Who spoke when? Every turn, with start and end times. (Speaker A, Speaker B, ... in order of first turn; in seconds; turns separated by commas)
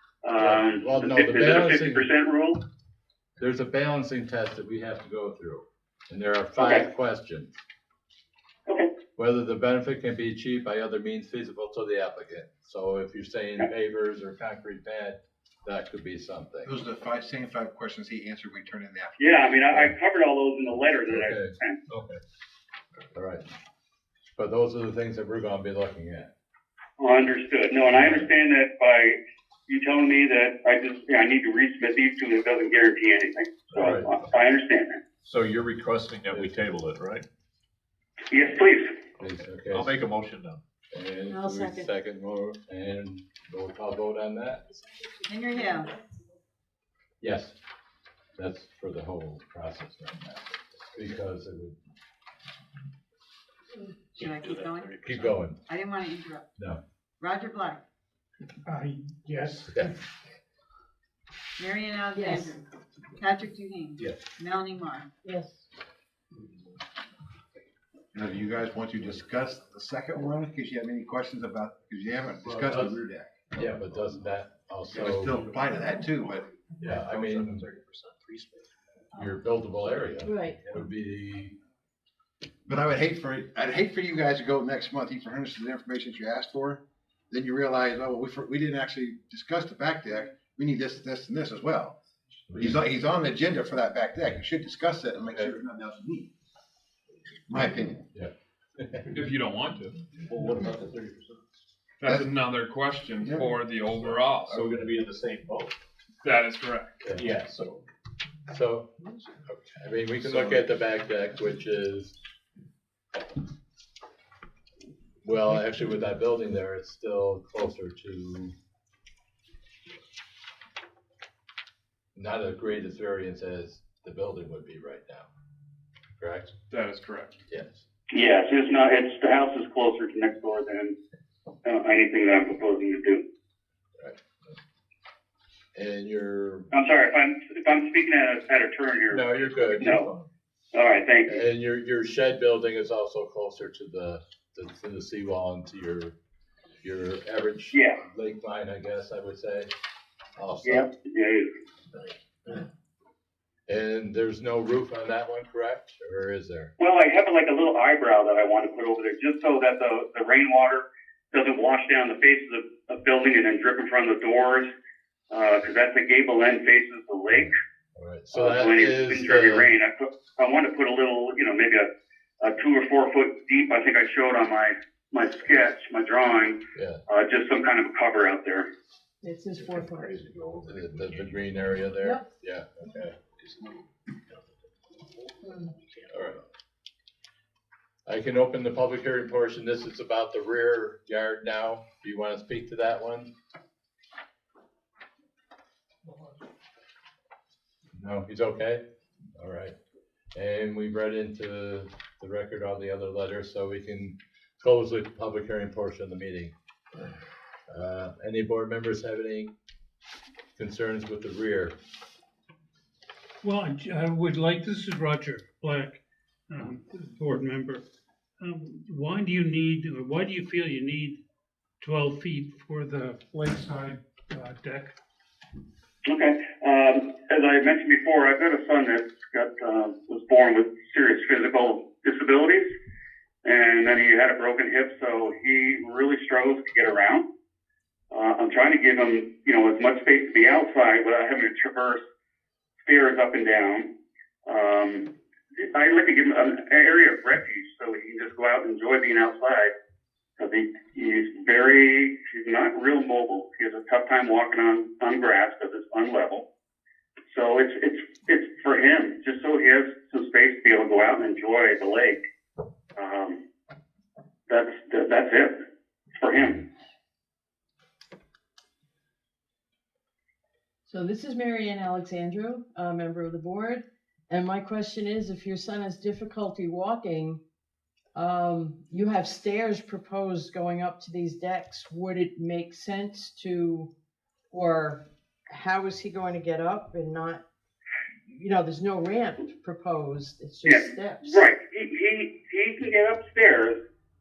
Speaker A: 0.2-2.6, Speaker B: 0.4-2.1, Speaker B: 3.4-7.5, Speaker A: 6.6-6.9, Speaker B: 9.2-16.8, Speaker C: 16.6-19.5, Speaker A: 19.2-21.8, Speaker B: 21.1-22.2, Speaker B: 23.1-23.5, Speaker B: 24.4-26.3, Speaker A: 27.0-35.0, Speaker B: 27.9-28.3, Speaker B: 33.8-34.1, Speaker D: 35.2-37.3, Speaker B: 36.3-36.7, Speaker A: 38.3-39.0, Speaker B: 39.2-40.0, Speaker D: 39.7-40.6, Speaker B: 40.9-44.6, Speaker E: 41.3-41.9, Speaker E: 45.0-45.8, Speaker F: 45.3-45.9, Speaker B: 47.2-47.5, Speaker B: 48.4-51.8, Speaker F: 54.1-56.5, Speaker D: 54.2-55.0, Speaker B: 55.0-55.6, Speaker F: 57.2-57.8, Speaker G: 58.7-59.8, Speaker F: 61.6-62.6, Speaker E: 62.1-62.6, Speaker F: 63.2-65.1, Speaker E: 65.2-65.6, Speaker C: 68.1-73.3, Speaker B: 73.5-75.4, Speaker C: 74.9-76.5, Speaker B: 76.8-77.7, Speaker D: 76.9-78.7, Speaker B: 79.1-81.6, Speaker E: 80.2-80.6, Speaker C: 82.7-92.0, Speaker C: 92.5-96.3, Speaker C: 97.5-98.0, Speaker B: 98.1-99.1, Speaker H: 99.1-100.0, Speaker D: 100.3-101.4, Speaker H: 102.0-104.8, Speaker C: 102.0-102.3, Speaker C: 103.2-103.5, Speaker D: 104.5-105.8, Speaker H: 106.2-107.1, Speaker B: 107.0-107.5, Speaker D: 107.1-107.8, Speaker B: 108.5-108.9, Speaker B: 109.5-112.2, Speaker B: 115.2-118.5, Speaker B: 122.2-125.3, Speaker B: 126.2-126.5, Speaker H: 126.7-127.4, Speaker B: 127.5-127.8, Speaker A: 128.1-131.0, Speaker A: 131.7-133.2, Speaker B: 135.8-136.7, Speaker A: 136.7-140.1, Speaker B: 139.1-140.1, Speaker A: 140.7-141.4, Speaker B: 141.3-146.1, Speaker B: 146.8-149.7, Speaker A: 147.7-148.0, Speaker B: 150.4-150.9, Speaker A: 150.6-151.5, Speaker B: 153.7-156.7, Speaker A: 156.8-164.7, Speaker A: 165.3-167.5, Speaker B: 167.3-169.7, Speaker A: 168.3-171.9, Speaker A: 172.4-178.7, Speaker B: 176.8-177.0, Speaker E: 179.2-180.2, Speaker D: 179.8-181.3, Speaker B: 180.6-183.2, Speaker E: 182.0-182.2, Speaker E: 185.5-185.7, Speaker B: 186.1-186.4, Speaker B: 188.1-193.3, Speaker B: 197.9-198.8, Speaker B: 199.4-199.8, Speaker B: 200.3-206.5, Speaker B: 207.7-209.5, Speaker B: 210.6-211.8, Speaker G: 213.4-217.8, Speaker G: 218.4-221.2, Speaker G: 221.8-224.9, Speaker A: 226.1-232.7, Speaker A: 233.4-237.3, Speaker A: 238.1-242.0, Speaker A: 242.8-243.9, Speaker A: 244.5-249.7, Speaker A: 250.4-256.4, Speaker A: 257.3-262.2, Speaker A: 263.0-263.4, Speaker A: 264.5-265.6, Speaker A: 266.2-266.6, Speaker E: 270.9-277.4, Speaker E: 278.1-283.9, Speaker E: 284.5-287.4, Speaker E: 288.3-291.4, Speaker A: 290.7-293.8